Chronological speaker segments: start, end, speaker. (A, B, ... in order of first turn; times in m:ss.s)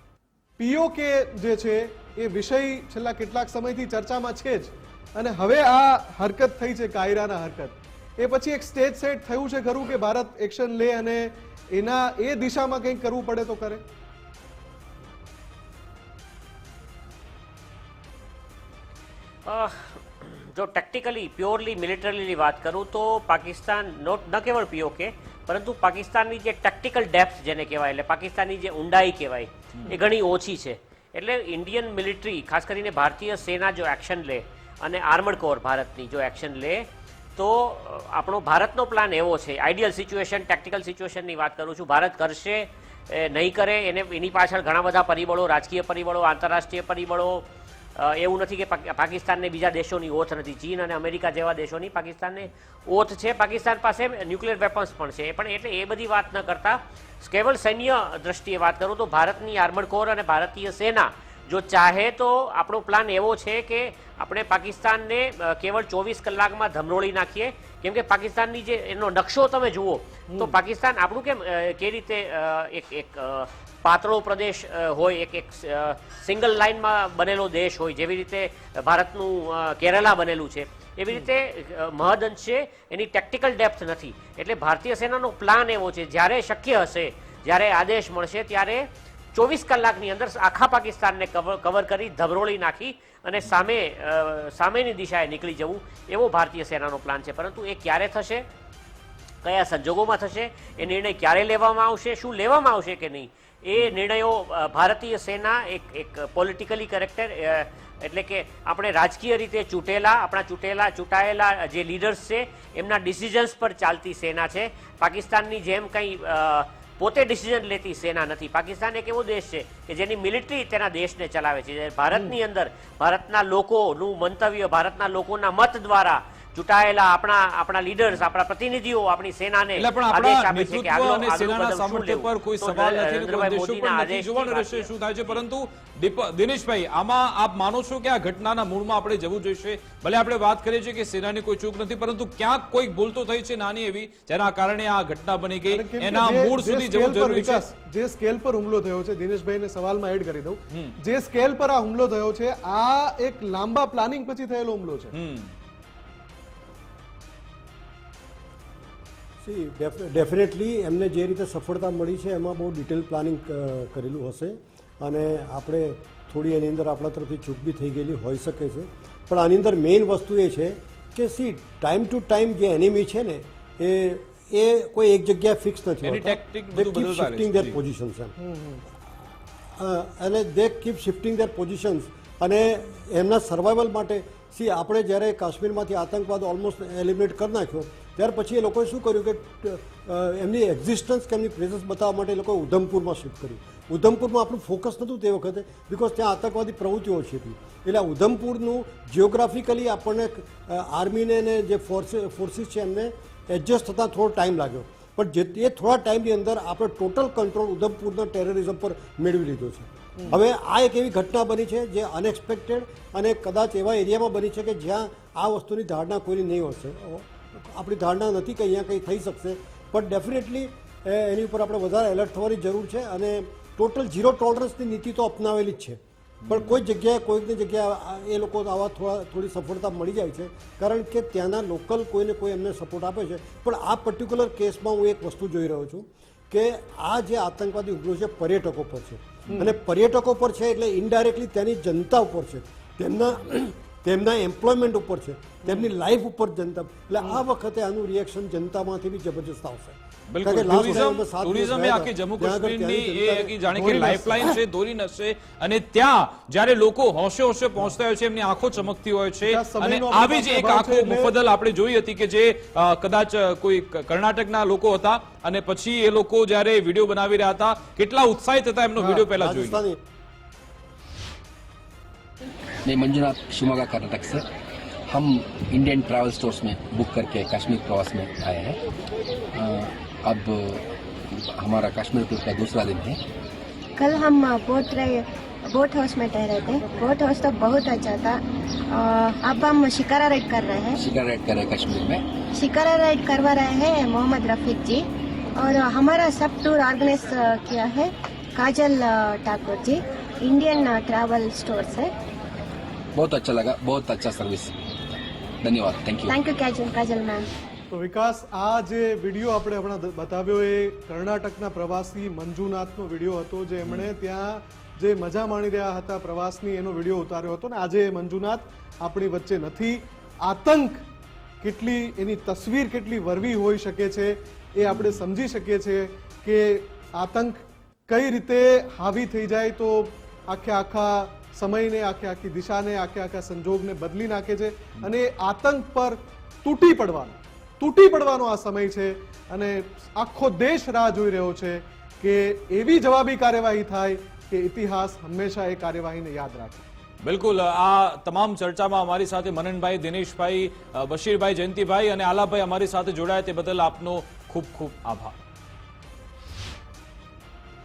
0:00.6-0:13.8 A
0:19.5-1:38.5 B
1:10.3-1:10.6 A
1:39.4-2:15.4 B
2:02.1-2:02.4 A
2:09.8-2:27.6 C
2:25.7-2:35.1 A
2:30.7-2:31.0 C
2:35.1-2:35.5 C
2:39.4-2:58.3 D
2:56.0-2:57.8 C
2:58.4-2:58.8 A
2:59.7-4:14.5 D
3:30.2-3:30.4 A
3:46.4-3:46.8 C
3:59.5-3:59.8 A
4:10.3-4:29.8 C
4:13.8-4:14.6 A
4:19.4-4:21.3 A
4:29.0-4:30.0 D
4:32.8-4:34.5 E
4:35.1-4:38.8 E
4:39.5-4:43.2 E
4:44.0-4:51.0 F
4:51.0-4:52.2 E
4:52.5-5:02.1 F
5:03.1-5:06.4 E
5:06.3-5:07.5 F
5:07.9-5:21.0 A
5:13.8-5:14.1 C
5:21.6-5:46.8 A
5:24.8-5:25.2 C
5:47.2-5:55.4 C